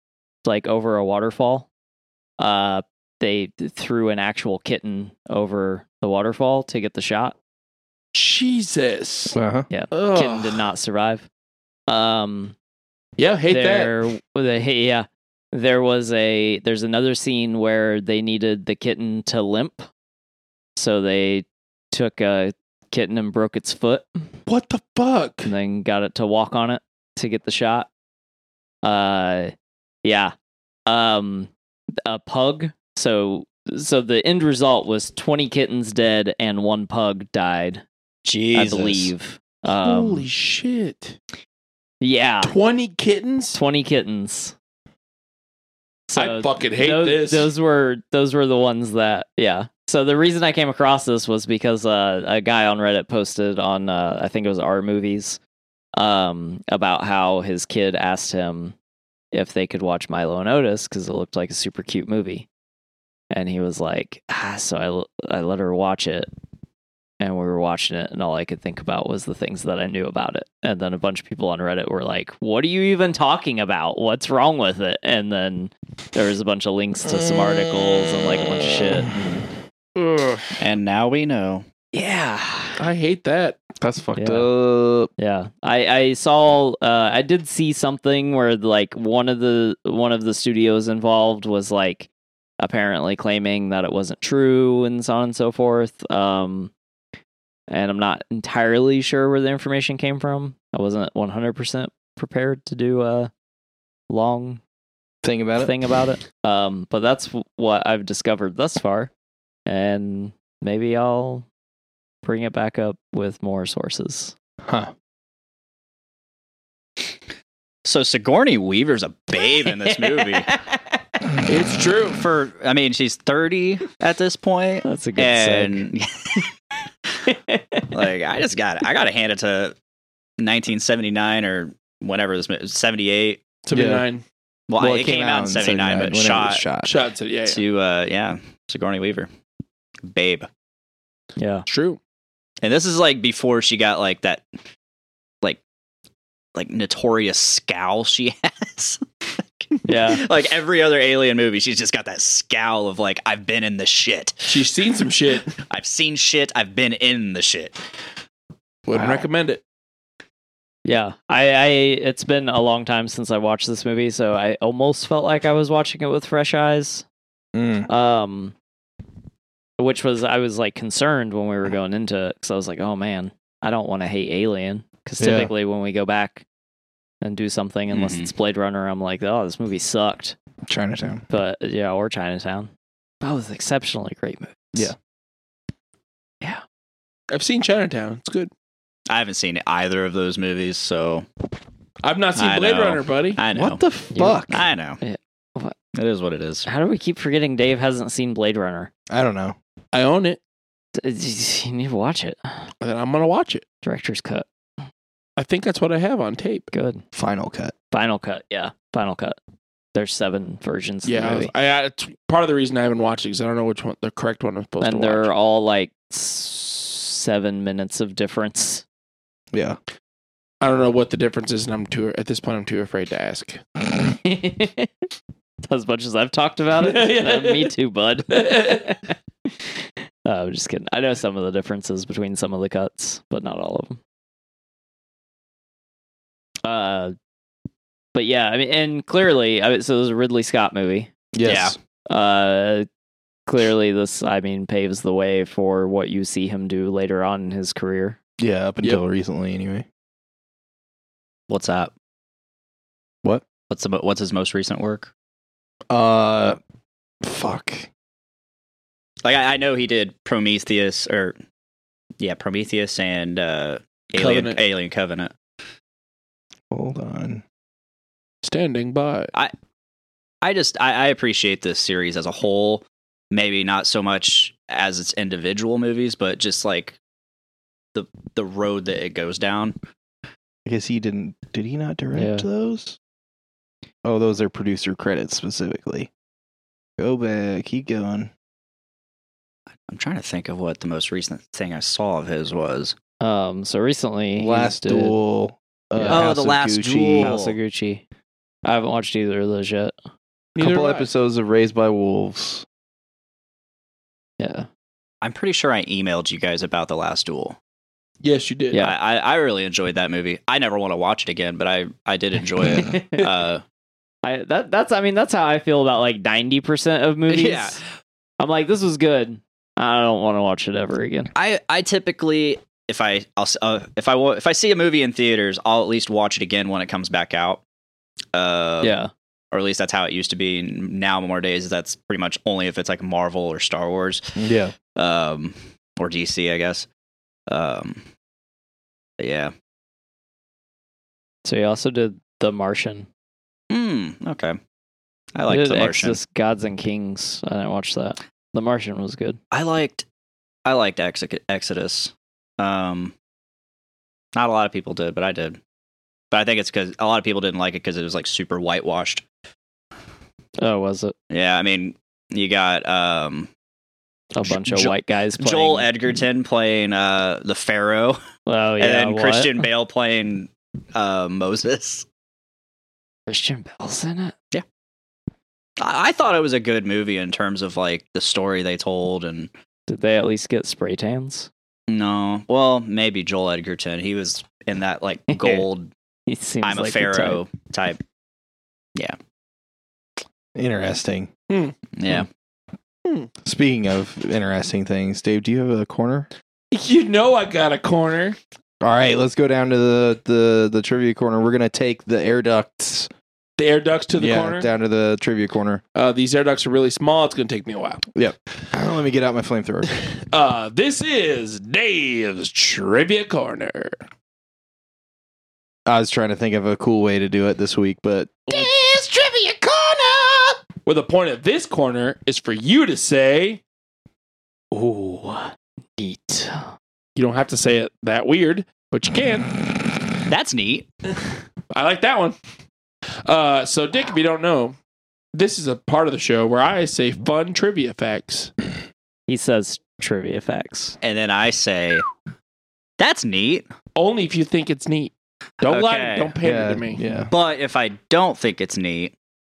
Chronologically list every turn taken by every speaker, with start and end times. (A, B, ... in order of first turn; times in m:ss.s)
0:00.4-0:01.7 A
0:02.4-0:07.4 A
0:08.1-0:09.4 B
0:09.3-0:09.7 C
0:09.7-0:11.3 A
0:09.9-0:10.6 B
0:11.9-0:12.5 A
0:13.2-0:14.0 B
0:13.5-0:19.9 A
0:20.8-0:24.2 A
0:24.4-0:25.5 B
0:25.4-0:27.9 A
0:28.8-0:29.5 A
0:30.0-0:30.3 A
0:30.9-0:31.5 A
0:32.0-0:37.8 A
0:38.2-0:39.1 D
0:38.5-0:40.3 A
0:39.8-0:41.2 B
0:42.0-0:42.5 A
0:42.4-0:43.6 B
0:43.5-0:44.5 A
0:46.1-0:55.4 A
0:46.2-0:47.5 B
0:56.0-0:58.7 A
0:59.3-1:02.5 A
1:03.3-1:06.3 A
1:07.2-1:19.4 A
1:20.6-1:21.6 D
1:21.9-1:22.8 A
1:22.8-1:23.6 B
1:23.8-1:25.1 C
1:24.2-1:24.5 A
1:25.2-1:32.1 A
1:32.6-1:36.7 A
1:37.7-1:43.3 A
1:44.1-1:44.6 A
1:45.2-1:45.7 C
1:45.6-1:49.1 A
1:49.6-1:51.4 A
1:52.2-1:54.3 A
1:54.6-1:54.9 C
1:57.8-2:00.5 D
1:59.6-2:01.0 A
2:01.4-2:02.2 B
2:02.1-2:06.4 D
2:04.8-2:05.9 A
2:07.3-2:07.9 A
2:07.9-2:09.8 D
2:10.4-2:13.4 D
2:13.6-2:14.2 B
2:13.7-2:14.0 C
2:14.7-2:16.6 D
2:14.8-2:16.9 C
2:16.8-2:17.6 B
2:17.4-2:19.3 D
2:20.0-2:20.5 D
2:21.4-2:21.6 A
2:21.7-2:22.0 B
2:22.6-2:24.4 D
2:26.6-2:29.0 D
2:29.6-2:34.6 D
2:29.8-2:30.2 A
2:34.5-2:35.5 B
2:35.6-2:37.8 D
2:38.9-2:39.6 B
2:38.9-2:39.2 C
2:40.8-2:47.0 A
2:47.5-2:47.9 C
2:47.9-2:48.5 A
2:49.8-2:56.4 A
2:55.2-2:55.5 C
2:57.2-3:00.4 A
2:57.9-2:58.3 D
3:00.6-3:01.2 C
3:01.3-3:02.7 A
3:03.2-3:04.9 A
3:07.3-3:08.5 B
3:09.1-3:11.2 D
3:12.0-3:13.4 B
3:12.4-3:13.8 D
3:13.5-3:14.6 C
3:14.1-3:14.4 A
3:14.5-3:15.0 D
3:15.0-3:15.7 A
3:15.9-3:16.7 D
3:16.6-3:18.9 A
3:19.1-3:19.6 C
3:19.9-3:20.4 B
3:20.9-3:22.7 A
3:22.8-3:23.6 B
3:23.8-3:24.4 A
3:25.4-3:26.7 B
3:26.7-3:27.0 A
3:27.1-3:27.7 C
3:27.9-3:29.4 A
3:29.9-3:31.5 A
3:31.0-3:35.3 B
3:34.8-3:38.8 A
3:39.5-3:39.8 C
3:40.6-3:43.6 B
3:44.2-3:44.9 A
3:45.6-3:49.1 A
3:46.8-3:47.7 B
3:48.3-3:48.9 B
3:50.2-3:54.0 A
3:56.6-3:57.2 A
3:58.1-4:01.1 A
4:01.3-4:01.8 C
4:01.4-4:01.7 D
4:02.1-4:02.9 A
4:03.5-4:08.2 A
4:08.4-4:09.8 C
4:11.5-4:11.9 D
4:13.7-4:15.1 D
4:15.9-4:16.6 C
4:17.2-4:17.9 C
4:19.2-4:21.4 D
4:22.2-4:25.3 D
4:24.1-4:24.6 B
4:26.7-4:27.4 C
4:28.4-4:29.3 B
4:30.4-4:37.0 D
4:37.9-4:39.8 D
4:40.6-4:43.0 C
4:42.1-4:42.4 A
4:44.0-4:46.1 C
4:47.0-4:48.3 C
4:49.9-4:53.0 D
4:53.2-4:55.2 A
4:54.4-4:57.3 C
4:56.0-4:56.3 A
4:56.1-4:57.6 D
4:57.2-4:58.0 A
4:58.6-4:59.9 A
5:00.6-5:02.6 C
5:00.6-5:01.1 B
5:04.4-5:04.7 A
5:05.2-5:07.6 D
5:08.2-5:08.8 B
5:08.8-5:13.6 D
5:12.6-5:13.3 A
5:14.2-5:17.8 A
5:17.3-5:17.8 D
5:18.4-5:21.3 A
5:21.3-5:27.6 D
5:28.3-5:28.9 D
5:28.8-5:29.1 A
5:29.5-5:34.2 D
5:34.4-5:34.7 C
5:34.9-5:36.9 D
5:37.5-5:38.0 D
5:39.2-5:39.5 D
5:41.4-5:43.1 A
5:43.7-5:44.6 D
5:45.3-5:46.2 D
5:45.5-5:49.4 A
5:49.5-5:50.0 D
5:50.6-5:53.1 D
5:54.3-5:55.6 D
5:56.3-5:59.2 D
6:00.6-6:01.1 A
6:01.3-6:03.5 D
6:04.3-6:05.9 A
6:04.4-6:08.2 D
6:08.4-6:09.6 A
6:08.8-6:12.0 D
6:13.3-6:14.3 A
6:15.8-6:19.5 D
6:19.9-6:21.5 A
6:21.9-6:25.9 D
6:25.3-6:25.6 A
6:26.3-6:27.4 A
6:26.6-6:28.0 D
6:30.6-6:31.3 C
6:31.5-6:31.7 B
6:32.0-6:32.3 D
6:33.4-6:36.3 C
6:36.7-6:38.4 B
6:38.8-6:43.1 C
6:43.6-6:44.7 B
6:44.2-6:45.8 C
6:45.9-6:48.0 B
6:48.1-6:49.9 C
6:50.2-6:54.0 B
6:55.8-6:58.7 C
7:00.8-7:03.6 B
7:04.7-7:06.7 A
7:07.2-7:09.6 B
7:10.3-7:10.9 D
7:11.7-7:12.4 B
7:13.2-7:14.7 B
7:15.3-7:18.5 B
7:19.3-7:21.0 A
7:21.0-7:22.0 D
7:23.0-7:23.7 D
7:24.0-7:27.0 B
7:25.6-7:26.3 D
7:26.4-7:27.3 C
7:27.3-7:29.1 D